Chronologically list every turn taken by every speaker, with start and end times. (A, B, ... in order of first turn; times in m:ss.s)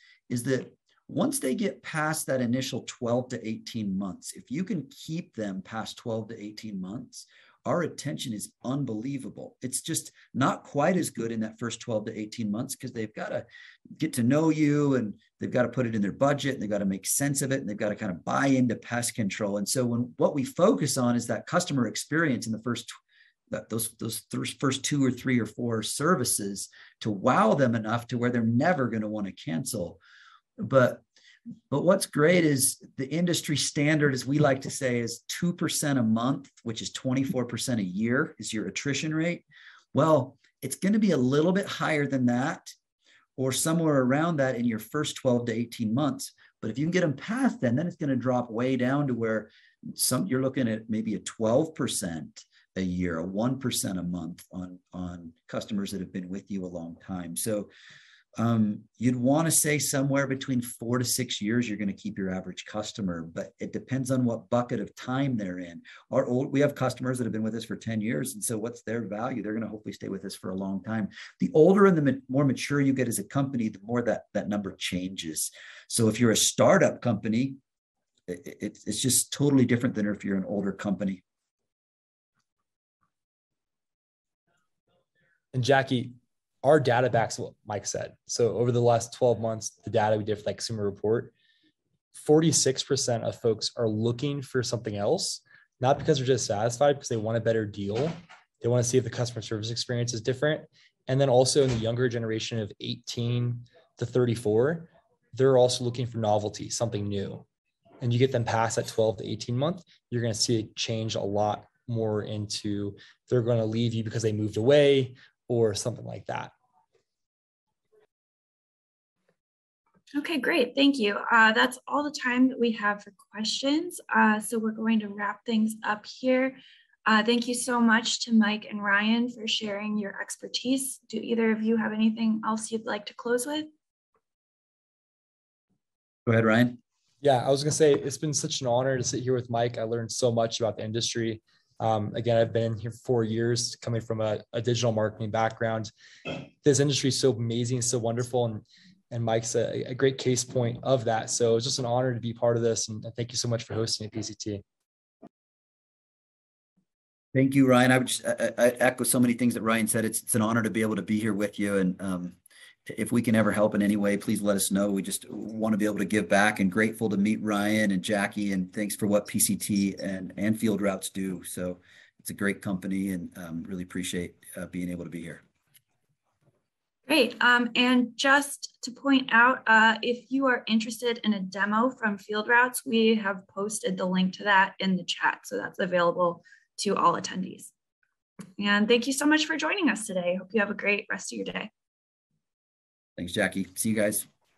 0:00.3-0:13.4 A
0:14.0-0:22.9 A
0:23.5-0:30.0 A
0:30.6-0:31.0 A
0:31.7-0:42.7 A
0:43.4-0:57.7 A
0:58.4-1:17.6 A
1:18.3-1:21.2 A
1:25.5-1:31.3 B
1:32.1-1:47.4 B
1:48.0-1:56.5 B
2:00.1-2:13.7 C
2:16.2-2:16.8 A
2:17.2-2:34.6 B
2:37.3-2:55.4 A
2:57.1-3:07.7 C
3:08.6-3:11.7 C
3:13.2-3:14.3 A